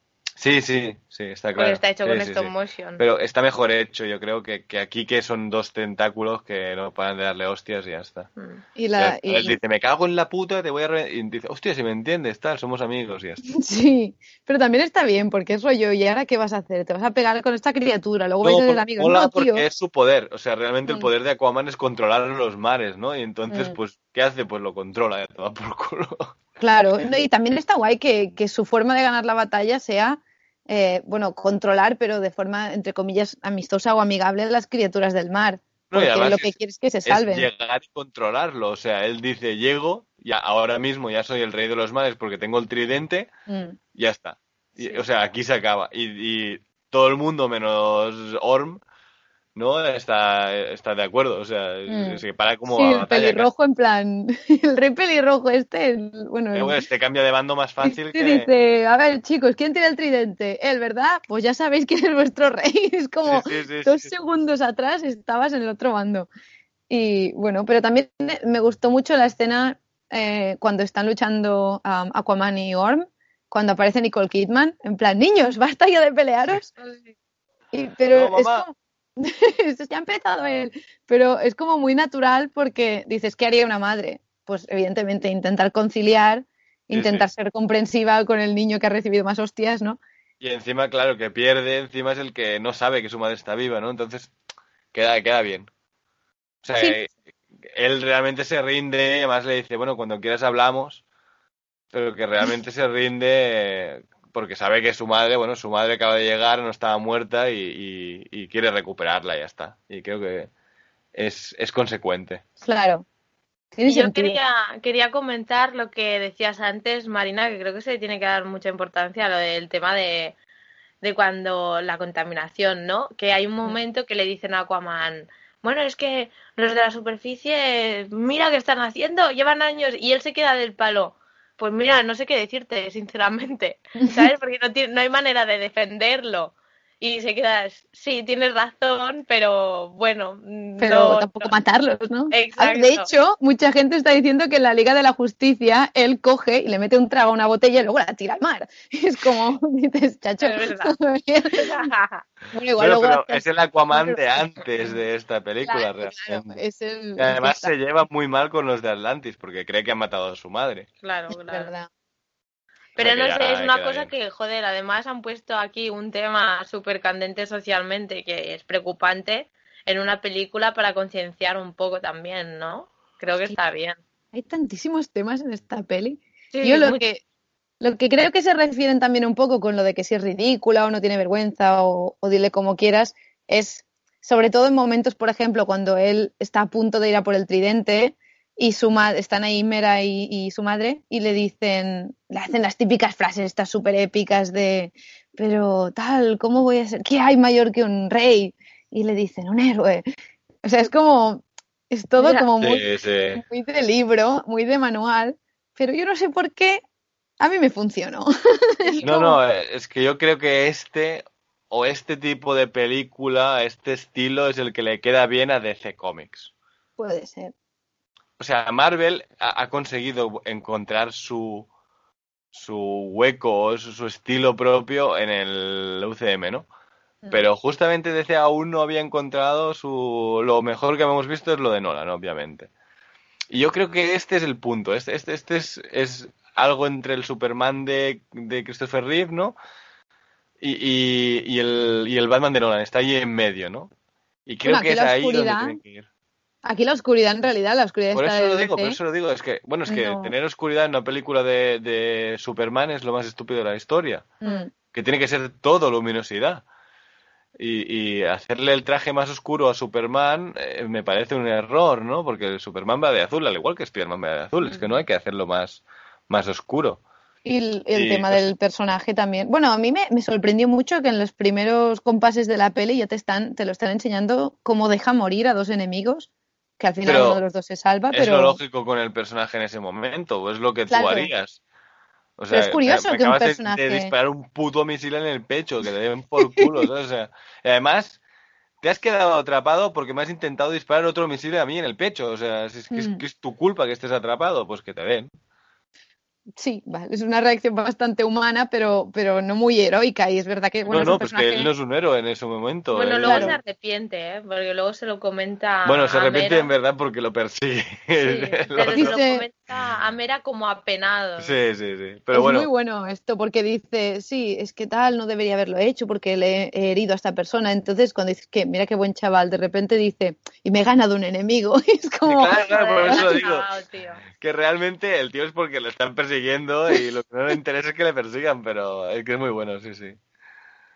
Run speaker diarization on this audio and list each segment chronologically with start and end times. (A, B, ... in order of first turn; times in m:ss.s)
0:00.4-0:08.3 A
0:01.6-0:03.0 B
0:08.4-0:08.6 B
0:08.8-0:09.6 C
0:09.0-0:13.5 A
0:13.4-0:19.6 C
0:18.4-0:26.4 A
0:20.8-0:21.1 C
0:23.5-0:23.8 C
0:26.6-0:37.5 C
0:35.9-0:43.3 A
0:43.5-0:43.8 C
0:43.9-0:48.8 A
0:49.5-0:53.5 A
0:51.9-0:56.8 C
0:56.5-0:58.5 A
0:57.8-1:06.3 C
1:03.2-1:04.1 A
1:06.9-1:16.7 C
1:16.8-1:17.1 B
1:17.7-1:30.0 C
1:18.1-1:18.6 A
1:26.9-1:27.3 A
1:30.4-1:34.3 A
1:34.9-1:35.7 A
1:36.6-1:37.1 A
1:37.6-1:41.0 A
1:41.9-1:50.5 A
1:51.1-1:52.4 A
1:52.6-1:53.0 C
1:53.7-1:54.4 C
1:53.9-2:00.4 B
2:01.0-2:21.5 B
2:20.8-2:31.9 C
2:22.3-2:23.1 B
2:30.4-2:31.0 B
2:31.5-2:32.2 B
2:32.5-2:35.0 C
2:32.8-2:36.6 A
2:35.7-2:37.7 C
2:37.2-2:40.9 A
2:41.0-2:41.7 B
2:41.3-2:41.9 C
2:43.0-2:54.0 B
2:43.0-2:44.1 A
2:54.3-2:57.2 C
2:56.5-2:57.0 B
2:57.8-3:20.0 C
3:20.6-3:26.8 C
3:22.2-3:22.5 B
3:22.6-3:23.4 A
3:27.4-3:29.4 C
3:29.0-3:36.5 A
3:37.0-3:37.5 C
3:38.4-3:41.7 A
3:42.5-3:46.7 A
3:47.3-3:52.7 A
3:53.5-3:59.6 A
4:00.6-4:03.9 A
4:04.4-4:06.1 A
4:04.6-4:05.8 C
4:06.6-4:09.0 C
4:08.1-4:14.4 A
4:09.9-4:10.3 C
4:14.4-4:14.7 C
4:14.9-4:16.6 A
4:17.6-4:27.0 A
4:27.4-4:36.3 C
4:27.9-4:28.5 A
4:36.8-4:38.6 C
4:37.0-4:37.4 A
4:38.1-4:41.6 A
4:40.9-4:41.3 C
4:42.4-4:48.2 A
4:42.5-4:44.1 C
4:48.8-4:55.3 A
4:52.9-4:53.2 C
4:56.6-5:01.7 C
5:00.9-5:03.6 A
5:02.9-5:06.7 B
5:03.2-5:03.6 C
5:05.8-5:09.2 A
5:08.2-5:11.6 B
5:09.0-5:09.4 C
5:11.4-5:12.7 A
5:12.3-5:23.2 C
5:22.2-5:23.7 A
5:22.6-5:24.2 B
5:24.3-5:30.2 A